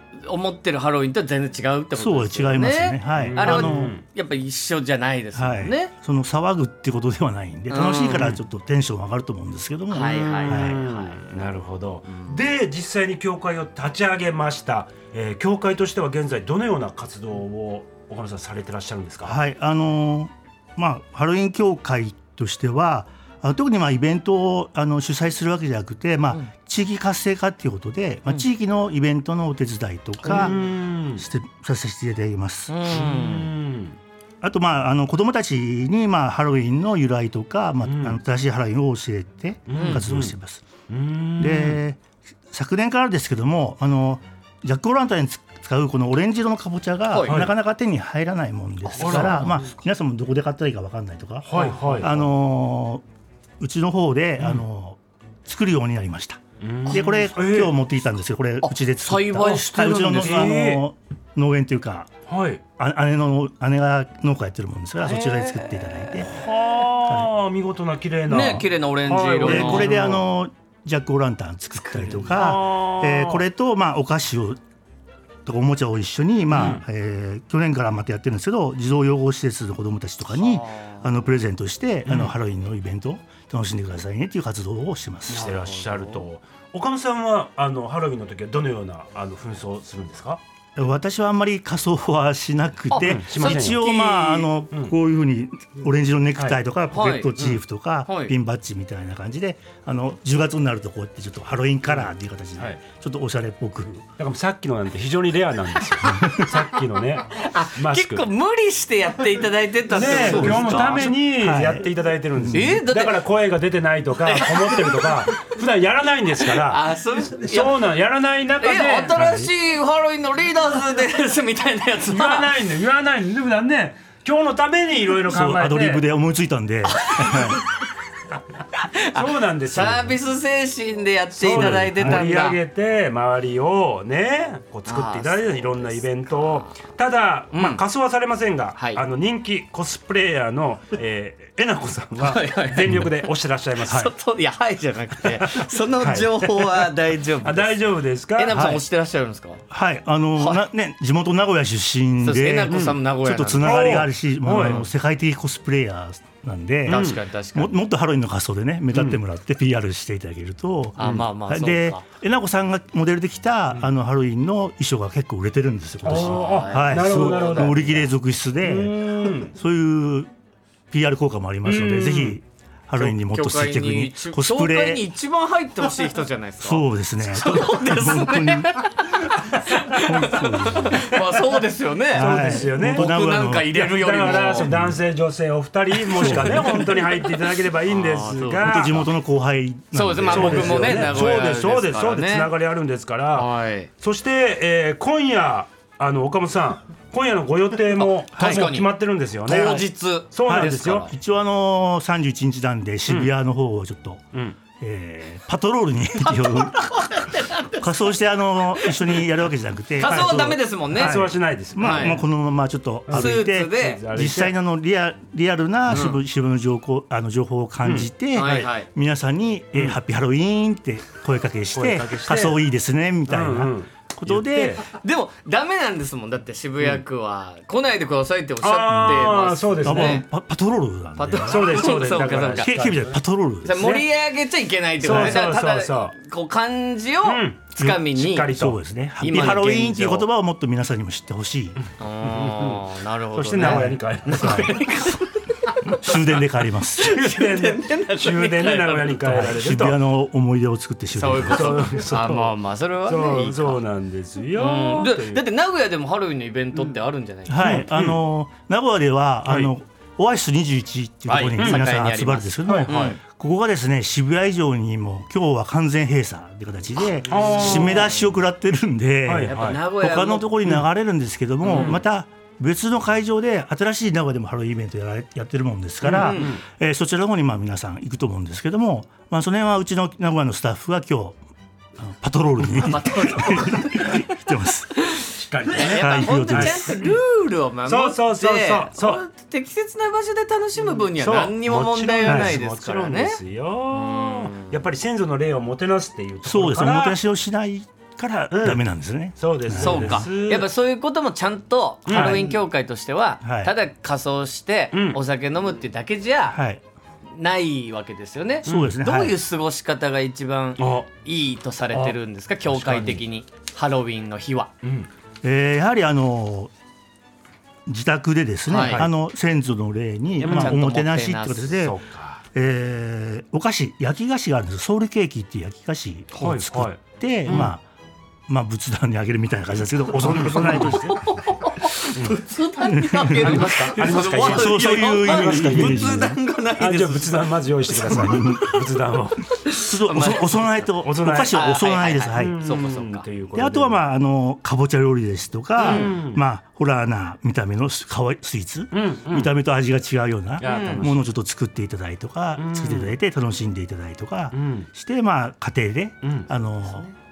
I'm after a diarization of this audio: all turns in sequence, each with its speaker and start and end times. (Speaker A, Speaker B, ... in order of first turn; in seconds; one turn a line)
Speaker A: 0.2-5.9
Speaker B: 1.9-3.9
Speaker C: 3.2-4.0
Speaker B: 5.3-10.8
Speaker A: 7.7-8.3
Speaker C: 8.1-8.4
Speaker A: 9.9-11.4
Speaker C: 10.2-19.4
Speaker A: 12.1-12.4
Speaker B: 19.2-30.6
Speaker A: 30.2-30.6
Speaker C: 30.2-31.3
Speaker B: 31.2-32.8
Speaker A: 32.7-33.5
Speaker C: 32.9-34.0
Speaker B: 34.4-40.7
Speaker C: 37.8-38.2
Speaker C: 39.7-40.3
Speaker A: 39.7-40.0
Speaker C: 40.9-41.8
Speaker B: 41.4-53.0
Speaker A: 47.1-47.4
Speaker C: 47.3-47.5
Speaker A: 48.9-49.7
Speaker C: 49.0-49.5
Speaker C: 51.5-52.2
Speaker A: 51.5-52.1
Speaker B: 53.6-62.1
Speaker C: 56.6-57.8
Speaker A: 56.9-57.3
Speaker A: 58.6-60.6
Speaker C: 59.4-60.8
Speaker C: 62.3-62.6
Speaker B: 62.8-66.3
Speaker A: 65.0-66.3
Speaker C: 66.3-70.2
Speaker A: 68.3-70.0
Speaker B: 69.5-74.6
Speaker A: 71.9-72.3
Speaker C: 72.0-73.5
Speaker B: 75.5-85.5
Speaker C: 76.5-76.8
Speaker A: 80.3-81.2
Speaker C: 82.1-82.3
Speaker A: 85.3-86.2
Speaker C: 85.3-90.4
Speaker B: 90.8-104.0
Speaker A: 92.9-94.4
Speaker C: 93.0-94.9
Speaker A: 96.9-97.3
Speaker A: 98.1-98.3
Speaker C: 101.9-102.8
Speaker C: 104.2-108.3
Speaker A: 107.3-111.1
Speaker C: 109.9-119.5
Speaker B: 110.0-112.8
Speaker A: 112.5-113.2
Speaker A: 114.3-115.5
Speaker A: 116.4-117.8
Speaker A: 118.6-122.5
Speaker C: 122.1-126.1
Speaker B: 125.3-127.6
Speaker A: 126.9-127.6
Speaker A: 128.7-132.6
Speaker C: 129.1-130.2
Speaker C: 131.4-144.1
Speaker B: 131.5-132.2
Speaker A: 134.9-136.8
Speaker A: 137.5-137.8
Speaker A: 138.8-139.0
Speaker A: 142.2-143.1
Speaker A: 143.8-147.8
Speaker C: 145.3-146.9
Speaker C: 147.4-148.7
Speaker A: 148.3-149.6
Speaker B: 148.5-148.8
Speaker B: 149.7-170.3
Speaker A: 152.2-154.9
Speaker C: 152.7-153.0
Speaker C: 153.6-154.8
Speaker C: 156.9-157.2
Speaker A: 156.9-157.8
Speaker C: 158.9-159.2
Speaker A: 161.0-162.0
Speaker C: 166.1-167.9
Speaker A: 166.1-168.1
Speaker C: 168.6-169.5
Speaker B: 170.9-175.1
Speaker C: 171.6-172.4
Speaker A: 173.0-184.7
Speaker B: 176.6-178.9
Speaker B: 179.9-181.1
Speaker C: 180.9-181.3
Speaker B: 182.1-183.8
Speaker C: 182.1-189.1
Speaker B: 184.6-185.0
Speaker A: 186.1-187.3
Speaker B: 186.1-186.9
Speaker A: 187.9-188.9
Speaker B: 188.6-191.4
Speaker A: 189.9-192.5
Speaker C: 190.3-201.1
Speaker A: 193.3-193.9
Speaker A: 198.0-198.9
Speaker B: 198.4-198.7
Speaker A: 199.4-201.1
Speaker B: 200.5-204.2
Speaker B: 204.8-207.2
Speaker A: 206.2-207.8
Speaker B: 207.7-224.8
Speaker A: 210.0-212.2
Speaker C: 210.0-212.2
Speaker C: 213.1-214.5
Speaker A: 213.1-214.1
Speaker A: 215.9-216.2
Speaker C: 217.8-218.1
Speaker A: 218.3-218.9
Speaker C: 221.7-222.6
Speaker C: 223.3-224.8
Speaker A: 224.8-230.2
Speaker C: 228.6-230.2
Speaker B: 229.0-229.2
Speaker B: 229.8-231.9
Speaker A: 231.2-232.7
Speaker C: 231.4-234.1
Speaker B: 232.6-233.8
Speaker A: 233.7-238.6
Speaker C: 235.0-236.2
Speaker B: 235.1-235.4
Speaker C: 237.2-239.5
Speaker B: 237.8-241.8
Speaker A: 239.2-240.3
Speaker A: 242.0-246.0
Speaker C: 242.2-244.8
Speaker B: 243.6-244.8
Speaker B: 246.0-247.2
Speaker A: 247.0-249.5
Speaker C: 247.1-250.0
Speaker B: 249.3-252.0
Speaker A: 251.2-253.8
Speaker C: 251.5-255.5
Speaker A: 254.6-257.9
Speaker B: 257.5-281.4
Speaker C: 257.6-258.2
Speaker A: 261.3-263.2
Speaker C: 261.6-261.9
Speaker C: 262.6-263.2
Speaker A: 267.2-268.3
Speaker C: 267.3-268.1
Speaker C: 269.3-269.8
Speaker A: 269.4-270.5
Speaker C: 271.6-272.0
Speaker A: 271.7-271.9
Speaker C: 276.0-276.6
Speaker A: 276.1-276.6
Speaker B: 282.0-285.1
Speaker A: 282.8-284.4
Speaker A: 285.0-293.4
Speaker C: 285.3-287.2
Speaker B: 285.8-287.0
Speaker C: 287.9-289.2
Speaker C: 291.1-297.2
Speaker B: 292.2-292.6
Speaker A: 293.9-294.8
Speaker B: 296.4-300.3
Speaker C: 298.5-298.8
Speaker C: 299.4-300.7
Speaker A: 299.8-306.6
Speaker C: 302.1-302.6
Speaker B: 303.4-303.7
Speaker C: 304.9-305.2
Speaker B: 306.5-306.8
Speaker A: 307.3-314.7
Speaker C: 308.7-309.0
Speaker B: 308.7-309.4
Speaker C: 310.8-311.1
Speaker C: 312.7-313.2
Speaker C: 314.8-315.1
Speaker B: 315.4-316.7
Speaker B: 317.9-322.0
Speaker A: 318.7-319.0
Speaker C: 318.8-319.1
Speaker C: 320.4-320.8
Speaker A: 320.4-321.8
Speaker C: 321.8-322.4
Speaker B: 322.5-327.8
Speaker C: 326.4-327.7
Speaker B: 328.5-331.2
Speaker C: 330.1-331.2
Speaker A: 330.5-338.8
Speaker B: 332.9-336.4
Speaker C: 333.4-339.5
Speaker B: 338.1-338.7
Speaker A: 339.5-340.9
Speaker B: 339.8-342.6
Speaker C: 341.0-341.6
Speaker A: 341.5-343.2
Speaker C: 342.4-344.0
Speaker B: 343.5-357.1
Speaker C: 345.8-346.4
Speaker A: 345.8-346.1
Speaker C: 348.9-349.5
Speaker C: 350.6-351.2
Speaker A: 350.6-351.1
Speaker C: 352.6-353.1
Speaker C: 354.5-354.9
Speaker C: 356.2-356.5